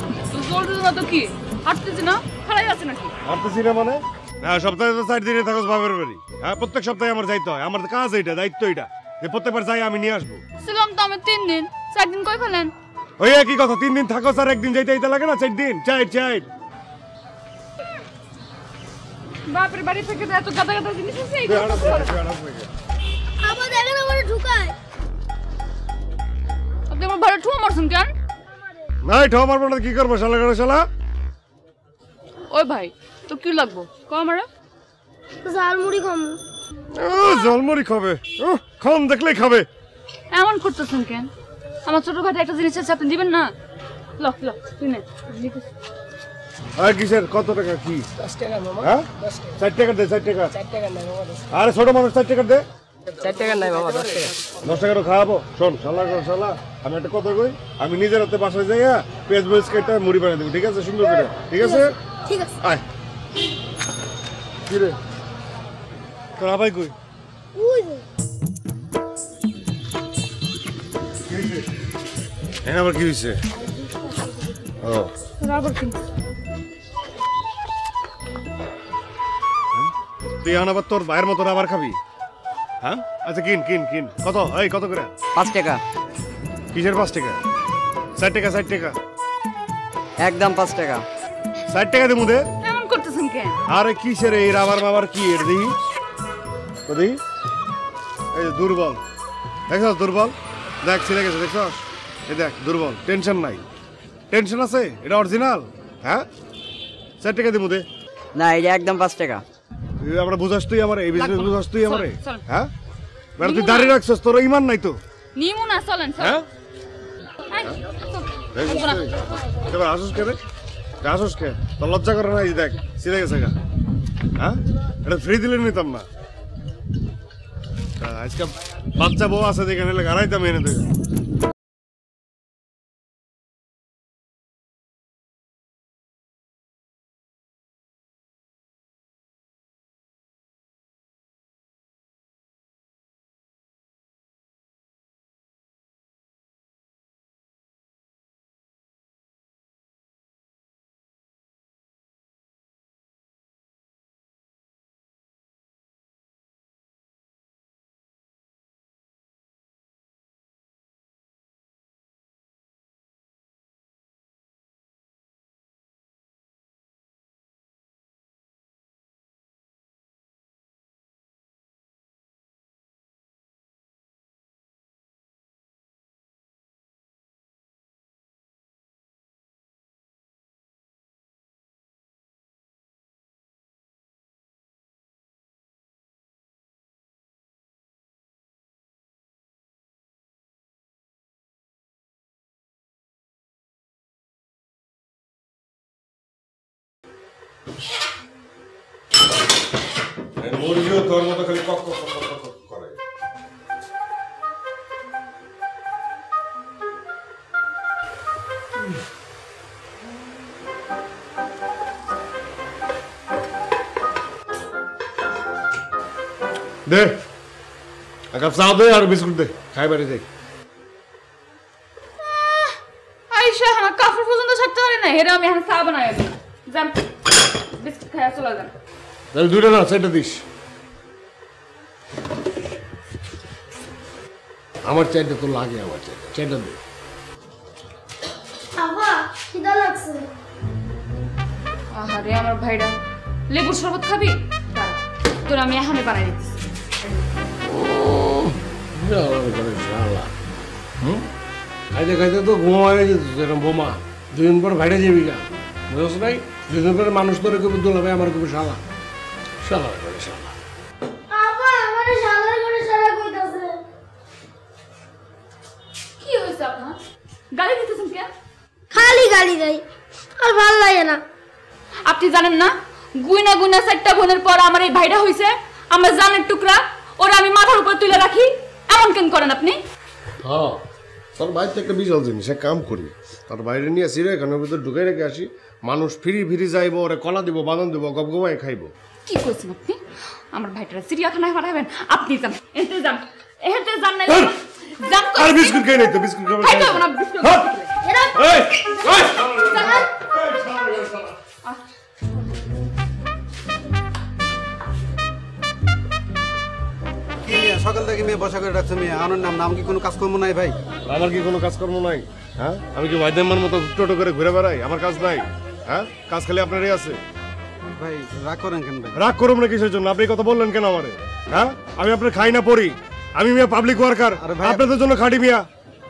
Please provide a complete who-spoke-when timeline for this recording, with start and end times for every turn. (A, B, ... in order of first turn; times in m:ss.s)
0:00.3-0:03.1 A
0:03.2-0:10.4 B
0:10.6-0:12.7 A
0:13.2-0:16.4 B
0:19.5-0:22.1 A
0:21.4-0:22.7 B
0:23.4-0:24.7 C
0:26.9-0:28.1 A
0:29.0-0:30.8 B
0:32.5-0:34.5 A
0:35.4-0:36.4 C
0:36.9-0:39.7 B
0:40.3-0:41.3 A
0:41.8-0:43.5 A
0:44.2-0:45.5 A
0:46.8-0:48.1 B
0:48.8-0:50.5 B
0:51.5-0:52.6 B
0:54.6-1:01.9 B
1:01.1-1:02.5 C
1:04.7-1:05.0 B
1:06.4-1:06.9 B
1:07.6-1:08.0 C
1:11.3-1:11.6 B
1:12.6-1:13.4 B
1:14.8-1:15.1 B
1:15.4-1:16.0 A
1:20.4-1:22.0 B
1:22.8-1:25.1 B
1:25.3-1:25.8 D
1:26.7-1:27.4 B
1:28.2-1:29.0 B
1:30.2-1:31.0 D
1:31.7-1:32.4 B
1:32.6-1:33.6 A
1:33.7-1:35.8 B
1:36.9-1:37.2 B
1:38.3-1:39.0 B
1:39.7-1:43.6 B
1:44.3-1:46.3 B
1:47.2-1:47.8 B
1:48.3-1:49.4 D
1:50.0-1:52.7 B
1:51.1-1:52.4 A
1:53.4-1:55.0 B
1:53.4-1:54.0 A
1:55.4-1:56.4 A
1:56.2-1:56.4 B
1:57.5-1:59.0 A
1:58.5-2:00.4 B
2:01.0-2:03.6 B
2:04.4-2:06.0 B
2:08.0-2:10.9 B
3:20.4-3:23.0 B
3:36.8-3:37.2 B
3:38.3-3:40.2 B
3:43.3-3:47.0 A
3:47.8-3:48.7 A
3:49.3-3:50.4 B
3:54.8-3:56.8 B
3:58.8-4:00.2 C
4:02.0-4:03.0 A
4:03.5-4:06.6 A
4:07.6-4:10.3 B
4:11.9-4:18.8 B
4:19.6-4:20.6 B
4:21.3-4:23.8 C
4:26.2-4:27.0 A
4:27.5-4:28.3 A
4:28.9-4:29.8 C
4:30.4-4:31.2 C
4:32.0-4:39.8 A
4:40.4-4:40.8 B
4:41.4-4:48.9 B
4:49.2-4:50.0 A
4:50.5-4:55.8 A
4:55.3-4:57.6 B
4:56.6-4:58.0 A
4:58.0-5:00.0 C
4:58.4-5:01.4 B
4:59.6-5:00.0 A
5:07.4-5:10.8 E
5:11.0-5:17.2 B
5:18.0-5:19.2 E
5:19.1-5:25.6 B
5:24.4-5:24.8 E